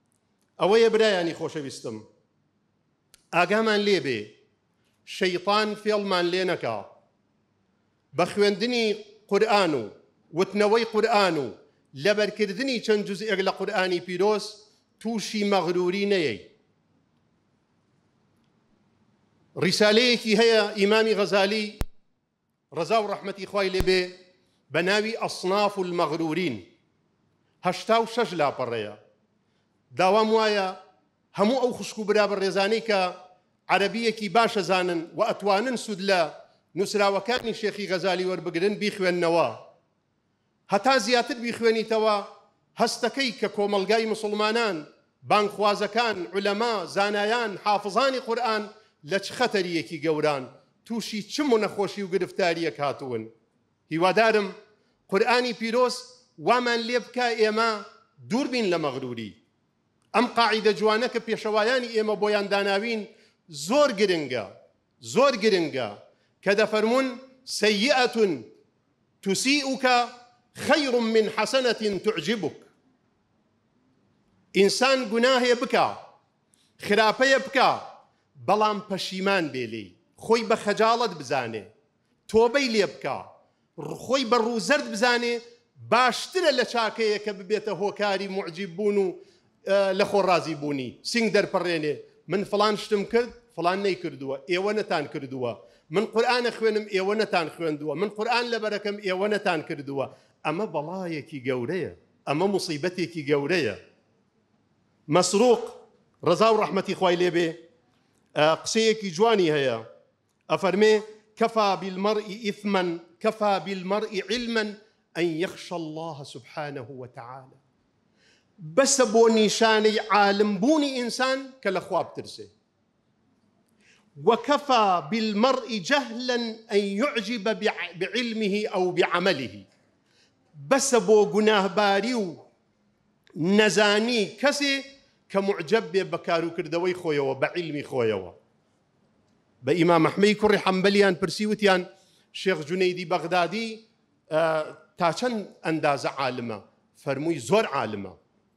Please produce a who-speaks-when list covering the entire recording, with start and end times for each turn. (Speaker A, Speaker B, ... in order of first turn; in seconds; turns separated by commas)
Speaker A: 0.6-2.0, Speaker A: 3.3-4.3, Speaker A: 5.0-6.9, Speaker A: 8.1-16.5, Speaker A: 19.6-21.8, Speaker A: 22.7-24.1, Speaker A: 24.7-26.6, Speaker A: 27.6-29.0, Speaker A: 29.9-30.8, Speaker A: 31.3-33.1, Speaker A: 33.7-39.6, Speaker A: 40.7-53.3, Speaker A: 53.9-54.5, Speaker A: 55.1-59.4, Speaker A: 60.1-64.5, Speaker A: 65.0-68.5, Speaker A: 69.2-72.7, Speaker A: 74.5-76.0, Speaker A: 76.8-81.7, Speaker A: 82.3-103.8, Speaker A: 105.1-107.6, Speaker A: 108.3-109.8, Speaker A: 110.5-117.6, Speaker A: 118.6-122.5, Speaker A: 124.2-129.6, Speaker A: 130.5-132.4, Speaker A: 133.4-138.3, Speaker A: 139.6-148.2